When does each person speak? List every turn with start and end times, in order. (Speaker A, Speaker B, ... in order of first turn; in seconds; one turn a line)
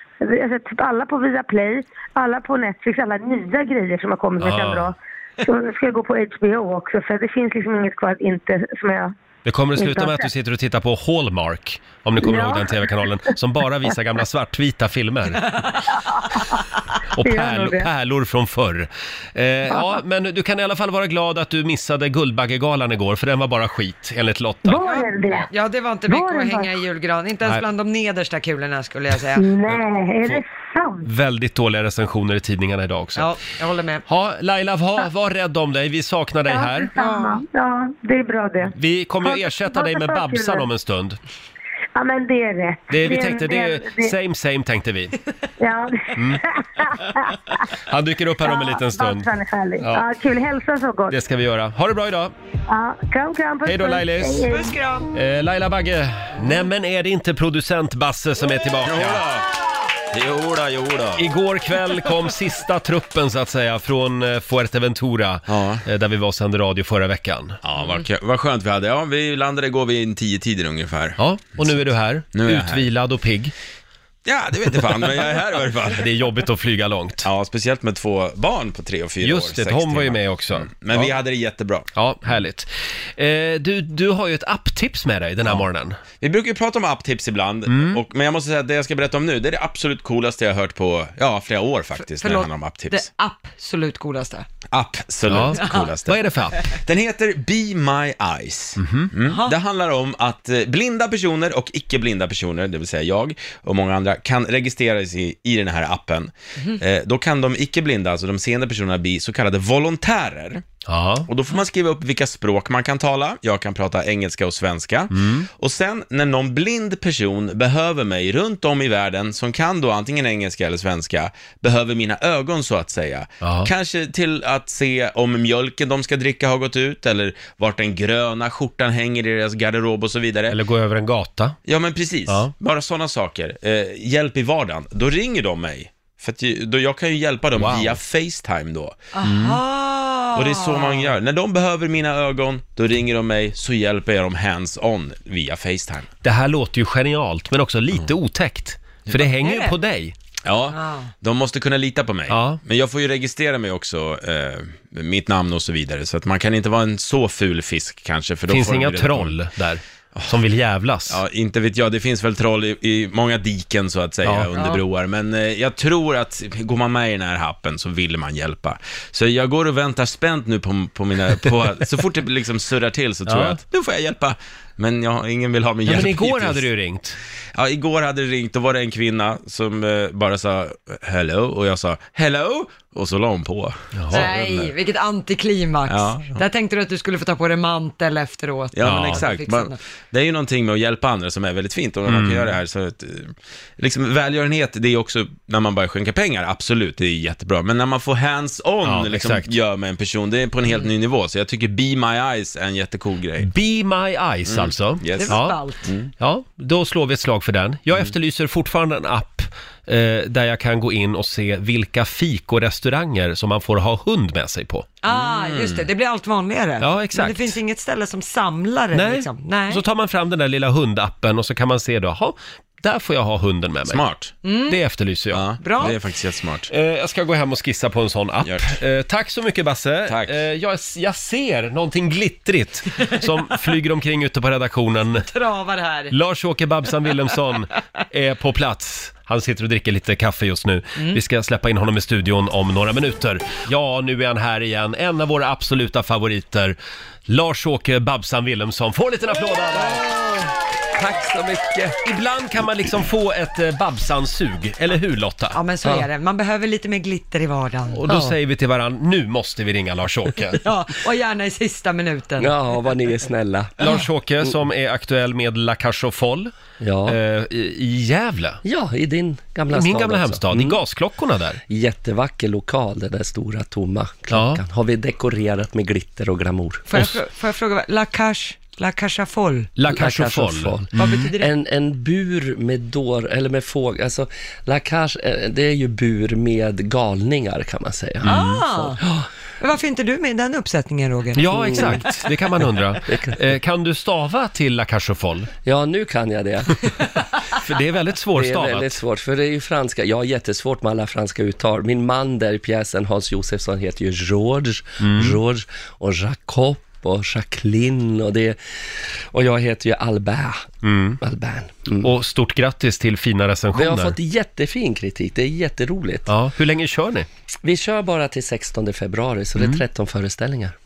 Speaker A: 0.2-9.1
Speaker B: 4.4-4.9
Speaker B: 9.4-15.5
Speaker A: 9.8-10.3
Speaker A: 12.2-12.8
Speaker A: 15.9-16.6
Speaker B: 17.1-25.4
Speaker A: 17.2-17.9
Speaker A: 24.6-25.5
Speaker C: 24.9-29.5
Speaker A: 26.1-26.7
Speaker A: 29.4-31.1
Speaker B: 29.7-30.4
Speaker B: 31.0-33.3
Speaker C: 33.1-34.0
Speaker B: 34.1-36.9
Speaker A: 36.5-40.6
Speaker C: 37.0-37.4
Speaker B: 38.7-41.2
Speaker A: 41.9-44.1
Speaker B: 42.9-45.1
Speaker A: 45.6-47.6
Speaker B: 46.1-46.4
Speaker B: 47.9-49.3
Speaker A: 48.5-51.1
Speaker B: 49.8-50.0
Speaker B: 51.1-52.3
Speaker A: 52.7-54.8
Speaker B: 53.6-54.5
Speaker C: 54.5-55.1
Speaker B: 55.1-59.2
Speaker D: 58.8-59.5
Speaker D: 60.1-61.2
Speaker B: 61.1-67.6
Speaker D: 65.5-65.8
Speaker D: 67.6-72.8
Speaker B: 71.2-73.5
Speaker D: 74.2-76.0
Speaker B: 75.9-77.3
Speaker D: 77.2-81.9
Speaker B: 79.2-81.1
Speaker B: 81.9-86.0
Speaker D: 86.2-93.0
Speaker B: 87.7-88.0
Speaker C: 92.0-94.5
Speaker D: 94.7-110.6
Speaker B: 95.3-96.6
Speaker C: 95.5-95.9
Speaker B: 98.8-99.1
Speaker C: 99.2-99.5
Speaker B: 110.9-111.3
Speaker D: 111.3-130.6
Speaker B: 115.1-115.5
Speaker B: 123.4-123.7
Speaker B: 130.5-131.6
Speaker D: 131.6-138.9
Speaker B: 132.3-132.5
Speaker B: 137.6-138.0
Speaker C: 139.1-141.1
Speaker B: 139.2-139.6
Speaker D: 140.3-146.1
Speaker B: 146.2-150.1
Speaker C: 149.4-149.7
Speaker D: 150.4-159.4
Speaker C: 150.7-151.1
Speaker B: 152.3-152.6
Speaker B: 158.5-161.2
Speaker D: 161.1-176.7
Speaker B: 164.2-164.5
Speaker C: 164.6-164.8
Speaker B: 173.2-173.6
Speaker B: 175.8-177.2
Speaker D: 177.5-184.7
Speaker B: 183.9-184.3
Speaker C: 184.1-189.8
Speaker D: 185.9-186.4
Speaker D: 188.7-203.5
Speaker B: 188.8-189.3
Speaker B: 192.1-192.5
Speaker B: 198.8-199.5
Speaker B: 203.4-205.6
Speaker D: 204.4-206.1
Speaker C: 205.2-205.9
Speaker B: 206.2-214.9
Speaker C: 215.0-219.8
Speaker D: 215.1-215.8
Speaker B: 216.8-217.6
Speaker B: 218.9-224.0
Speaker D: 223.9-224.3
Speaker C: 224.4-224.8
Speaker B: 224.7-225.4
Speaker D: 225.3-226.7
Speaker C: 225.6-225.9
Speaker B: 226.7-235.2
Speaker D: 228.4-228.7
Speaker D: 230.1-230.3
Speaker C: 235.1-236.1
Speaker B: 236.1-246.8
Speaker B: 247.3-250.0
Speaker E: 249.9-252.0
Speaker B: 252.0-255.6
Speaker C: 255.5-258.0
Speaker B: 257.9-260.6
Speaker E: 258.1-258.4
Speaker C: 260.6-262.5
Speaker E: 262.4-264.5
Speaker B: 263.8-266.5
Speaker E: 266.8-267.2
Speaker B: 267.1-268.6
Speaker E: 268.6-270.8
Speaker B: 269.7-271.6
Speaker E: 271.7-276.8
Speaker B: 274.3-274.6
Speaker C: 276.9-279.7
Speaker B: 279.8-281.3
Speaker E: 279.9-288.3
Speaker C: 280.9-281.5
Speaker B: 288.2-288.6
Speaker C: 288.3-289.0
Speaker E: 289.0-289.2
Speaker C: 289.6-292.0
Speaker B: 291.4-295.5
Speaker E: 291.5-292.1
Speaker E: 293.1-293.4
Speaker E: 295.6-296.9
Speaker B: 297.5-299.0
Speaker E: 298.3-308.6
Speaker B: 305.0-305.4
Speaker E: 309.3-310.7
Speaker B: 310.8-311.2
Speaker E: 311.2-312.1
Speaker B: 312.0-314.1
Speaker E: 313.7-316.3
Speaker B: 316.3-317.3
Speaker E: 317.6-320.7